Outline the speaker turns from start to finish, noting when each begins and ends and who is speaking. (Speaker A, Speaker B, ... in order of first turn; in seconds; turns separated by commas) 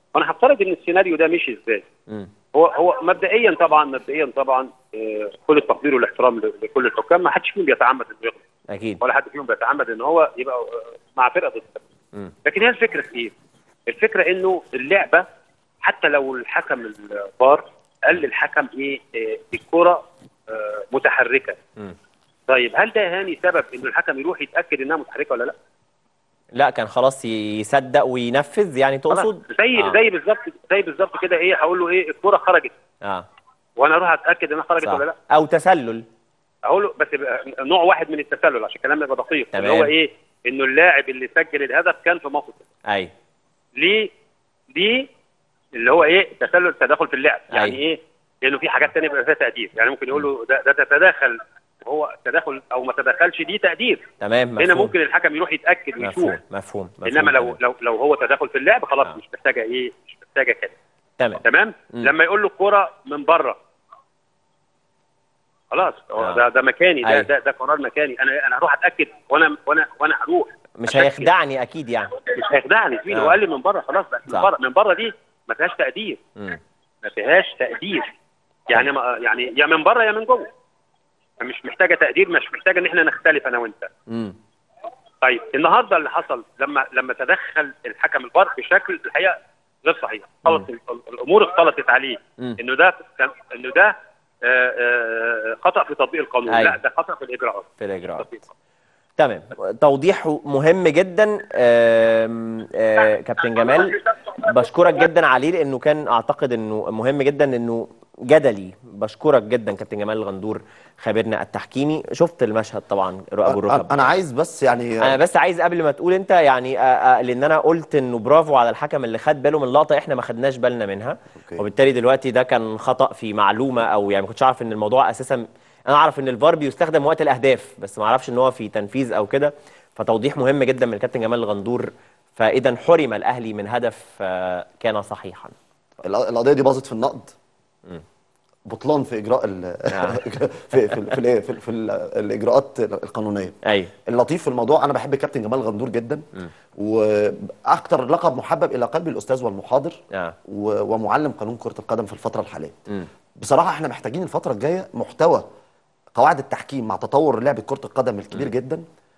Speaker A: 0.1-1.8, Speaker A: 2.5-8.4, Speaker B: 8.7-9.0, Speaker A: 9.0-11.8, Speaker A: 12.4-13.3, Speaker A: 13.9-15.2, Speaker A: 15.8-21.6, Speaker A: 22.5-25.5, Speaker B: 26.5-30.0, Speaker A: 29.1-32.7, Speaker A: 33.8-35.1, Speaker B: 34.8-36.0, Speaker A: 36.6-42.6, Speaker B: 39.5-39.9, Speaker B: 42.9-43.1, Speaker A: 43.8-44.1, Speaker A: 44.7-45.1, Speaker A: 45.7-54.0, Speaker B: 47.5-47.8, Speaker B: 54.2-54.9, Speaker A: 54.6-56.4, Speaker B: 56.0-57.6, Speaker A: 57.0-60.7, Speaker B: 61.2-62.1, Speaker A: 61.4-63.6, Speaker A: 65.7-71.3, Speaker B: 67.0-67.3, Speaker B: 70.8-72.1, Speaker A: 72.3-76.2, Speaker B: 73.1-73.4, Speaker A: 77.0-78.1, Speaker A: 78.7-80.5, Speaker A: 81.4-83.9, Speaker B: 84.1-84.4, Speaker A: 85.2-98.4, Speaker B: 96.5-96.8, Speaker B: 97.8-98.3, Speaker B: 99.2-114.0, Speaker C: 113.4-115.2, Speaker B: 115.0-135.5, Speaker C: 136.0-137.3, Speaker C: 138.7-146.2, Speaker B: 139.9-140.2, Speaker B: 140.7-141.1, Speaker B: 143.6-143.9, Speaker C: 146.8-152.8, Speaker C: 153.4-155.4, Speaker C: 156.2-158.8